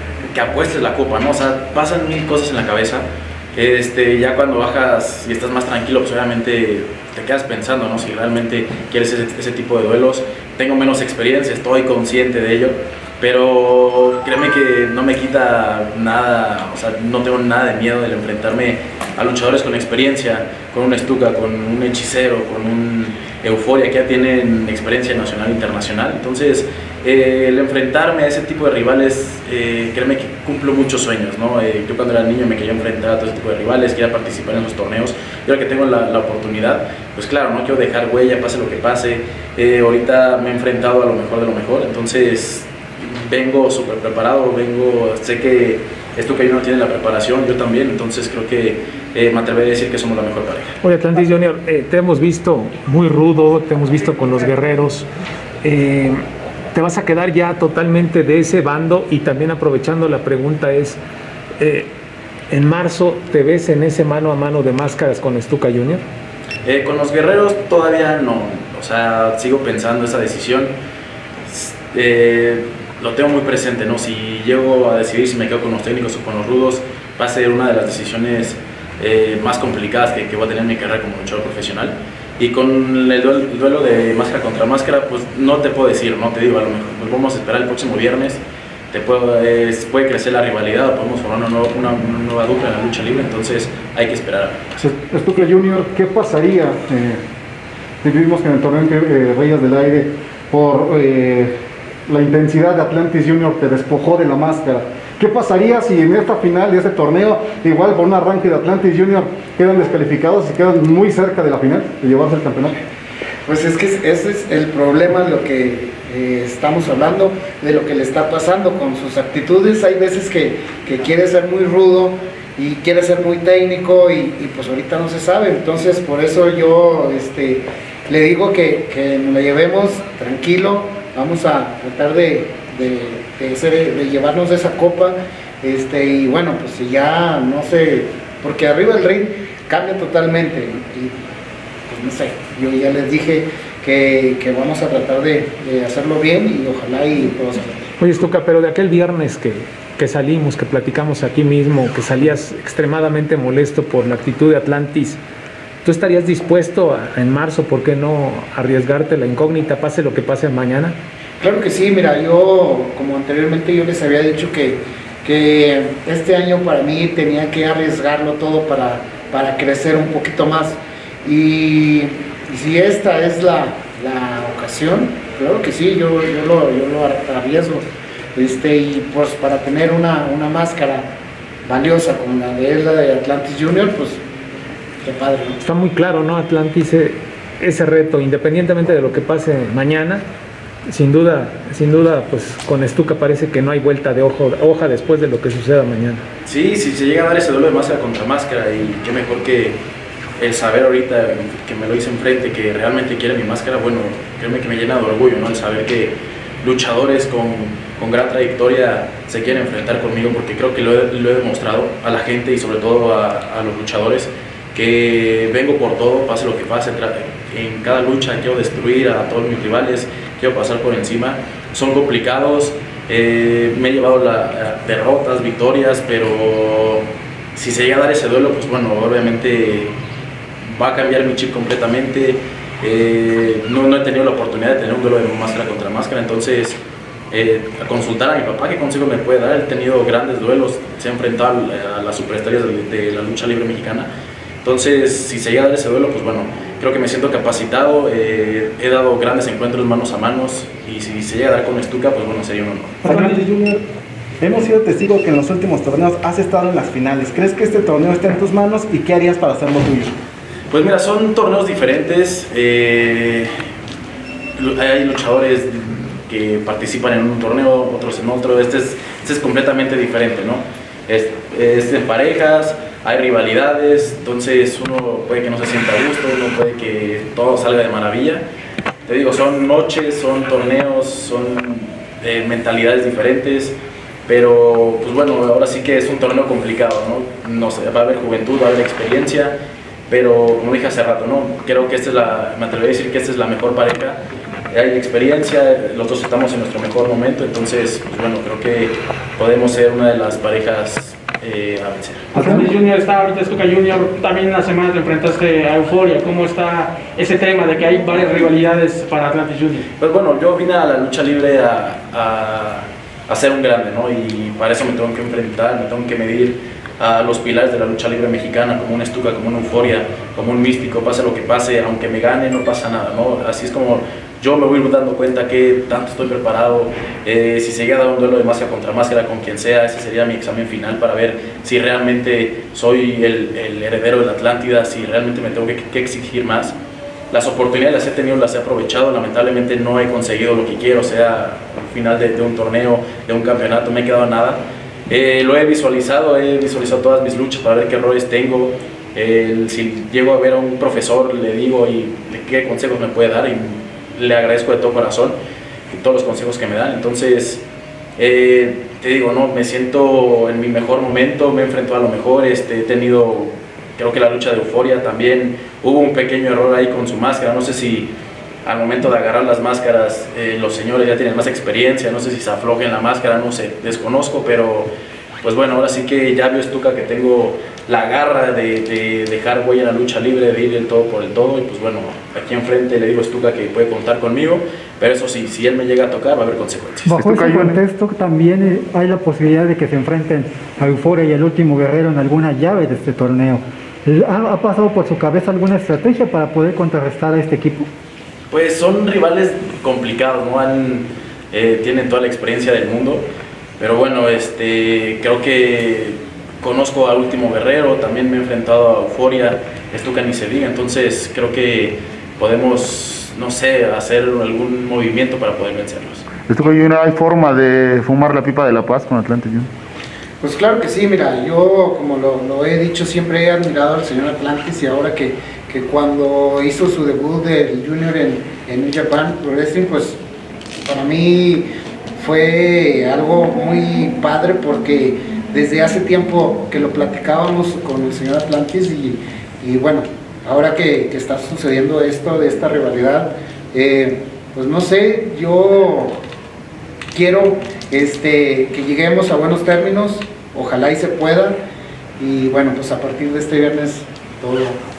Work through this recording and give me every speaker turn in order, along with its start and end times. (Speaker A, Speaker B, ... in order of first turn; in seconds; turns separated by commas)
Speaker A: 0.3-50.8, Speaker B: 50.8-55.1, Speaker B: 55.6-56.2, Speaker B: 56.7-61.0, Speaker B: 61.6-61.9, Speaker B: 62.5-66.0, Speaker A: 66.7-70.7, Speaker A: 71.5-88.4, Speaker A: 88.9-94.8, Speaker C: 94.8-97.2, Speaker C: 98.0-101.5, Speaker C: 102.1-112.8, Speaker D: 113.5-141.2, Speaker D: 141.9-147.9, Speaker B: 148.0-155.2, Speaker B: 155.8-160.9, Speaker D: 161.4-177.8, Speaker D: 178.3-181.1, Speaker D: 181.7-184.2, Speaker D: 185.0-185.6, Speaker B: 185.6-190.2, Speaker B: 190.9-196.2, Speaker A: 196.5-199.8, Speaker A: 200.4-229.9, Speaker A: 230.7-236.8, Speaker A: 237.3-244.1, Speaker A: 244.6-253.0, Speaker E: 253.0-253.8, Speaker F: 253.1-253.4, Speaker E: 254.4-260.1, Speaker A: 260.7-263.5, Speaker A: 264.6-278.4, Speaker A: 279.1-289.6, Speaker A: 290.1-294.2, Speaker A: 294.7-302.4, Speaker G: 302.4-302.7, Speaker F: 302.4-309.9, Speaker A: 310.0-336.8, Speaker A: 337.3-355.4, Speaker A: 355.9-357.6, Speaker A: 358.2-368.1, Speaker A: 368.6-374.9, Speaker A: 375.4-387.3, Speaker G: 387.1-397.9, Speaker H: 387.2-387.7, Speaker A: 398.5-403.2, Speaker A: 403.8-416.3, Speaker H: 416.4-419.7, Speaker D: 420.4-430.2, Speaker D: 430.9-446.1, Speaker D: 447.1-451.6, Speaker D: 452.2-454.8